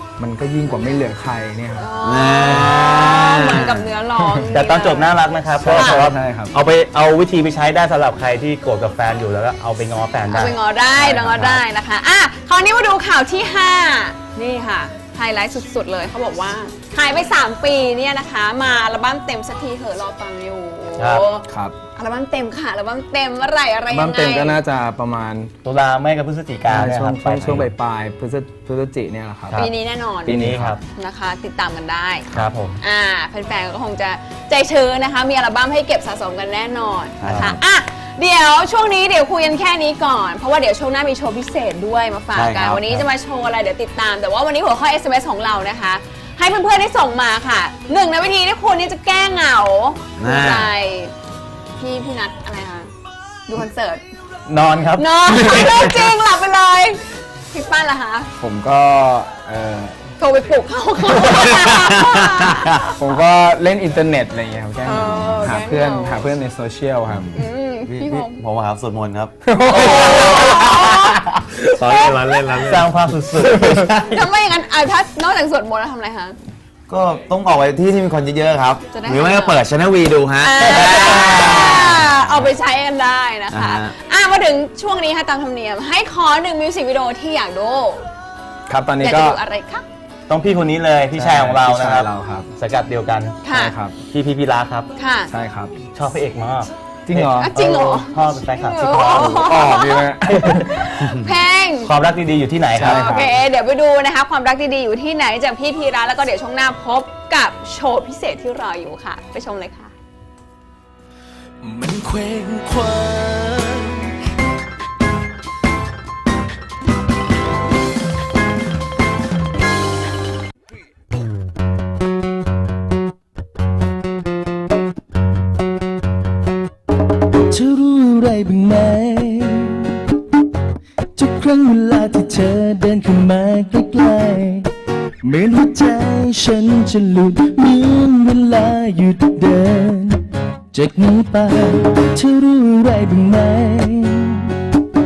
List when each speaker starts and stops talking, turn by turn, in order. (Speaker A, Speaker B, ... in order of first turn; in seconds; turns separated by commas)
Speaker A: 0.2-1.9, Speaker B: 1.8-5.2, Speaker C: 2.0-3.9, Speaker D: 4.5-11.6, Speaker A: 5.6-6.5, Speaker B: 5.7-6.1, Speaker B: 10.3-24.6, Speaker D: 21.0-21.2, Speaker A: 21.5-21.8, Speaker A: 23.9-25.5, Speaker D: 25.6-27.7, Speaker A: 26.7-29.6, Speaker B: 29.5-30.4, Speaker A: 30.3-30.8, Speaker D: 30.3-30.8, Speaker B: 30.9-32.3, Speaker D: 32.3-32.8, Speaker B: 32.8-51.1, Speaker C: 37.2-37.6, Speaker D: 37.2-37.6, Speaker C: 42.3-43.1, Speaker C: 50.2-50.7, Speaker B: 51.8-52.9, Speaker B: 53.5-54.0, Speaker D: 54.5-55.9, Speaker B: 55.0-57.0, Speaker B: 57.5-58.3, Speaker A: 58.4-60.0, Speaker B: 60.2-63.2, Speaker C: 61.2-62.6, Speaker A: 63.0-67.3, Speaker B: 64.8-66.3, Speaker C: 67.1-71.2, Speaker B: 67.3-68.4, Speaker A: 69.5-70.4, Speaker B: 69.6-71.2, Speaker D: 69.7-70.6, Speaker C: 71.7-73.9, Speaker B: 71.8-72.5, Speaker D: 72.6-74.1, Speaker B: 74.0-76.4, Speaker C: 76.9-82.5, Speaker B: 78.9-79.6, Speaker B: 80.4-88.1, Speaker D: 80.7-81.7, Speaker C: 83.5-84.0, Speaker A: 88.7-89.4, Speaker B: 89.0-89.9, Speaker D: 90.3-93.4, Speaker A: 91.2-92.5, Speaker B: 93.4-93.7, Speaker A: 93.5-94.0, Speaker D: 94.1-94.9, Speaker B: 95.0-95.3, Speaker A: 95.3-95.8, Speaker D: 95.9-99.4, Speaker A: 97.1-97.5, Speaker B: 97.4-101.9, Speaker A: 99.1-100.9, Speaker D: 101.8-103.2, Speaker A: 102.7-103.3, Speaker B: 102.8-109.9, Speaker A: 111.6-113.9, Speaker E: 127.5-130.0, Speaker E: 131.2-134.7, Speaker E: 135.2-144.6